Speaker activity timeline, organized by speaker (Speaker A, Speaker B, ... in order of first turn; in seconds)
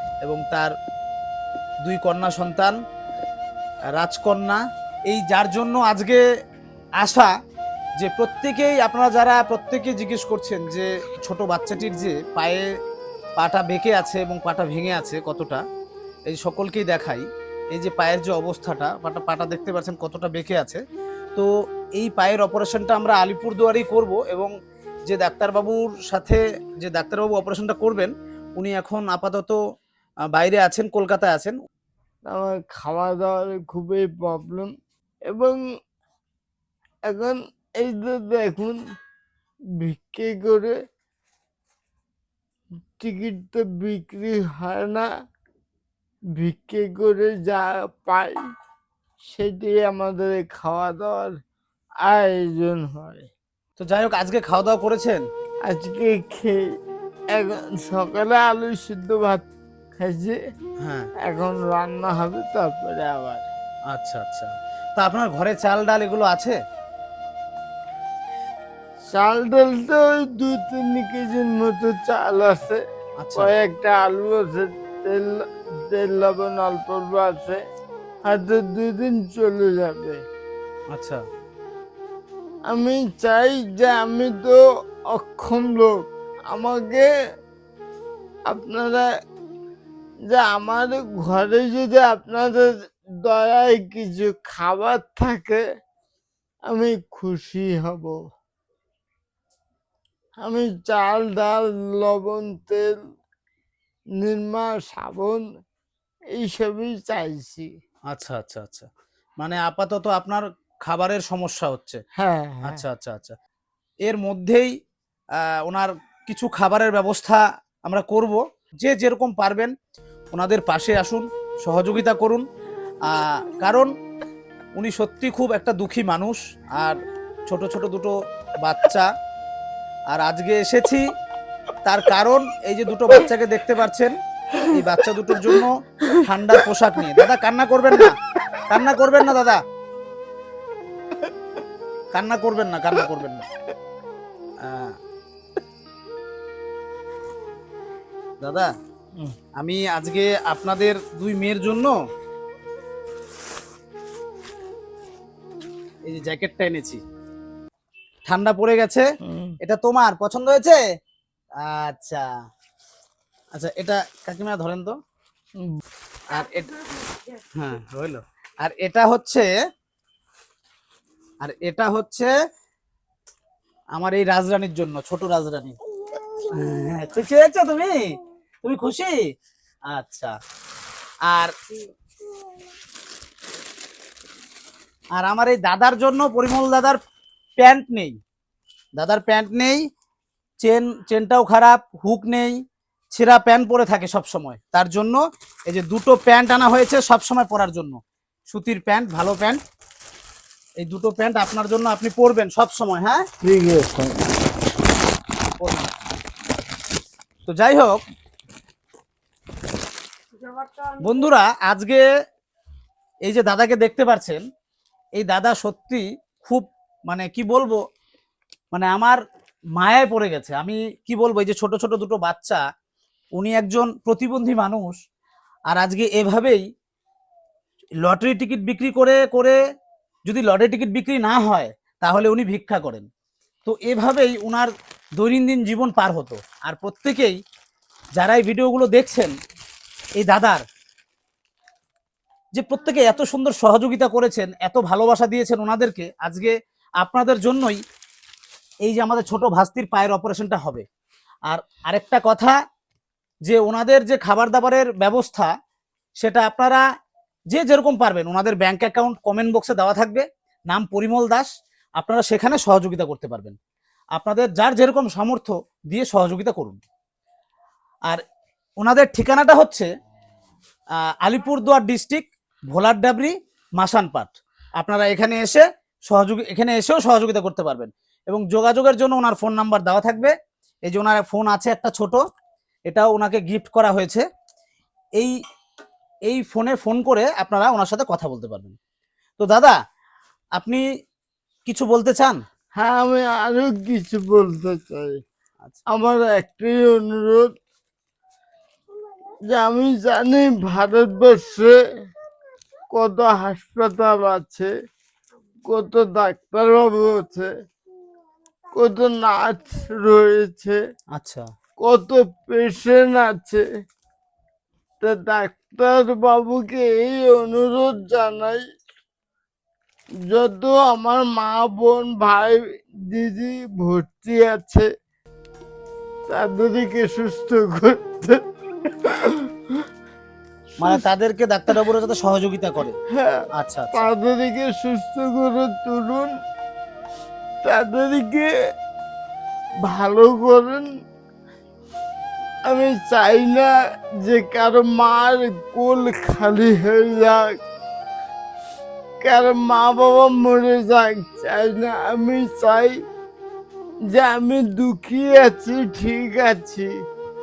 Speaker A: 0.2-0.7, 1.9-2.8, 4.0-6.2, 7.0-7.3, 8.0-12.6, 13.4-15.6, 16.3-20.8, 21.3-24.5, 25.1-29.6, 30.3-31.6, 53.8-55.2, 60.8-61.1, 63.9-66.5, 73.2-73.5, 80.9-81.2, 108.1-108.9, 109.4-112.0, 112.7-113.3, 114.0-114.7, 115.6-119.7, 120.3-122.4, 123.1-123.9, 124.8-127.0, 127.5-129.1, 130.1-131.0, 131.8-134.1, 134.7-139.6, 142.1-143.4, 144.6-144.9, 148.4-148.7, 149.6-151.9, 156.1-157.0, 158.3-159.0, 159.6-160.8, 161.6-162.2, 163.6-164.9, 166.3-166.9, 167.5-169.5, 171.4-172.3, 173.9-175.8, 176.5-178.0, 178.6-179.2, 179.9-180.3, 181.3-181.5, 185.2-187.0, 187.6-188.2, 189.0-189.8, 190.6-192.6, 193.1-199.6, 200.8-203.2, 205.6-205.9, 207.4-208.0, 210.9-212.0, 213.2-214.4, 215.2-217.8, 218.7-219.2, 219.8-222.6, 223.4-225.0, 225.7-226.6, 228.0-229.6, 230.3-233.1, 233.7-237.3, 238.2-239.3, 240.2-240.6, 242.6-247.8, 248.8-250.8, 251.5-252.5, 253.5-255.5, 256.2-256.8, 257.5-263.6, 264.1-266.8, 268.8-269.9, 271.1-280.3, 280.9-282.2, 282.9-284.2, 286.3-288.8, 289.4-289.8, 290.6-290.8, 291.7-292.4, 311.1-311.5, 330.8-332.9, 333.6-334.1
Speaker B: 32.3-34.7, 35.3-35.6, 37.1-38.8, 39.8-40.7, 43.0-45.1, 46.4-48.4, 49.2-51.3, 52.0-53.3, 55.7-56.6, 57.3-59.5, 60.0-60.4, 61.3-63.5, 69.1-72.8, 73.3-77.6, 78.3-80.2, 82.7-84.6, 85.1-87.1, 88.5-89.0, 90.3-95.6, 96.7-98.2, 100.4-103.0, 104.2-105.4, 106.4-107.7, 112.2-112.8, 159.2-159.6, 203.4-204.2, 292.8-295.2, 295.9-297.5, 299.5-301.8, 302.9-304.7, 305.7-307.5, 308.8-310.8, 311.8-313.6, 315.0-318.6, 320.3-324.9, 326.3-329.5, 333.1-336.3, 337.6-338.5, 339.8-340.9, 342.7-347.6, 349.2-353.0, 354.1-356.9